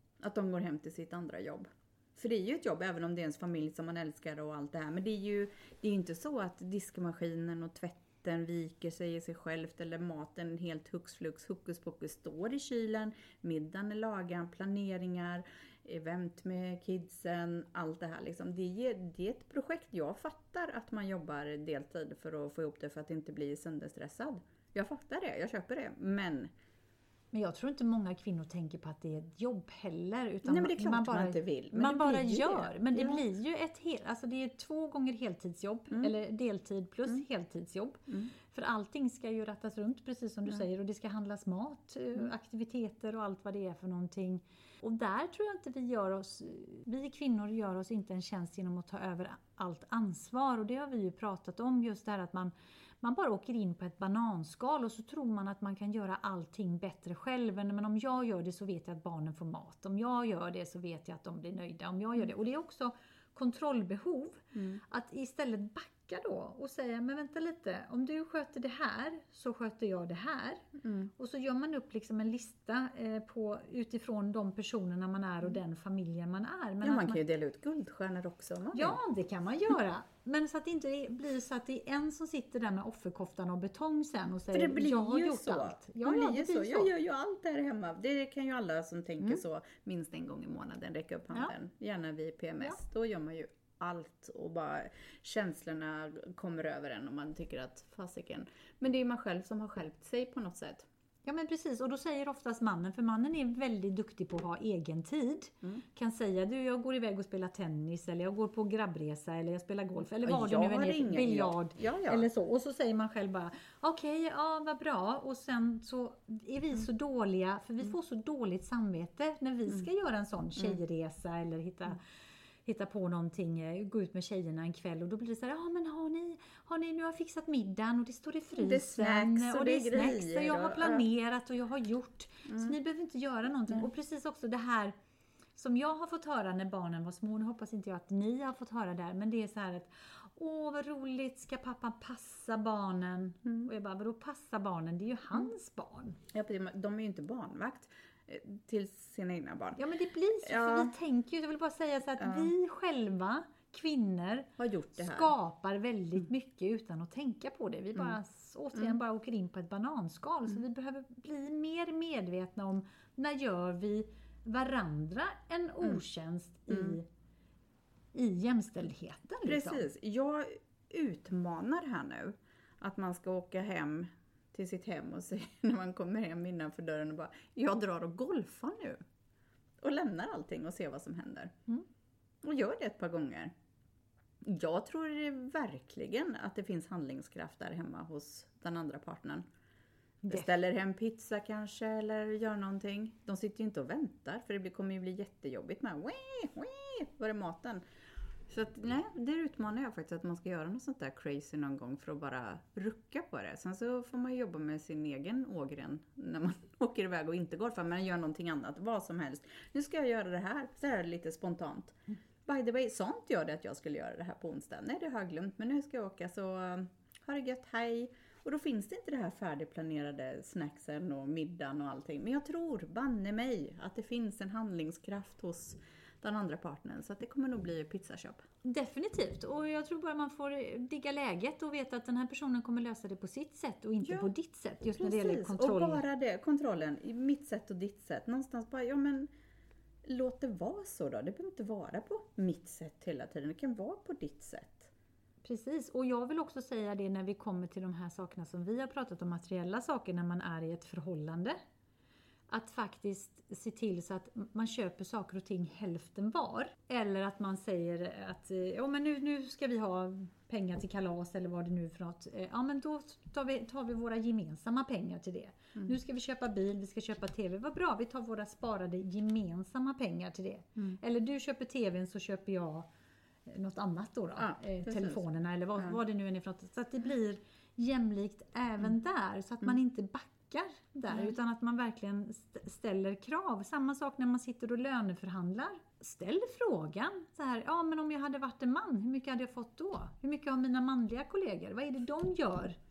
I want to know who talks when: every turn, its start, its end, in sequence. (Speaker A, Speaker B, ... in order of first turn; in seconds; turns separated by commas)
Speaker A: 0.2-26.5, Speaker B: 27.3-77.2, Speaker A: 30.4-33.2, Speaker A: 64.5-64.8, Speaker A: 70.8-71.1, Speaker A: 76.8-79.0, Speaker B: 78.7-86.9, Speaker A: 84.5-100.9, Speaker B: 101.2-122.0, Speaker A: 110.2-112.3, Speaker B: 122.7-134.9, Speaker A: 128.6-131.1, Speaker B: 135.6-146.2, Speaker A: 146.3-149.8, Speaker B: 149.8-167.1, Speaker A: 150.4-150.9, Speaker A: 152.2-152.5, Speaker A: 154.6-155.3, Speaker B: 168.1-169.9, Speaker A: 169.4-179.0, Speaker A: 179.8-181.6, Speaker A: 182.4-183.5, Speaker A: 184.4-189.5, Speaker A: 190.3-197.8, Speaker A: 198.5-228.4, Speaker B: 228.6-236.0, Speaker A: 234.0-234.3, Speaker A: 235.0-239.3, Speaker A: 240.1-244.9, Speaker B: 245.4-251.6, Speaker B: 252.5-272.9, Speaker B: 273.5-292.8, Speaker A: 274.4-275.2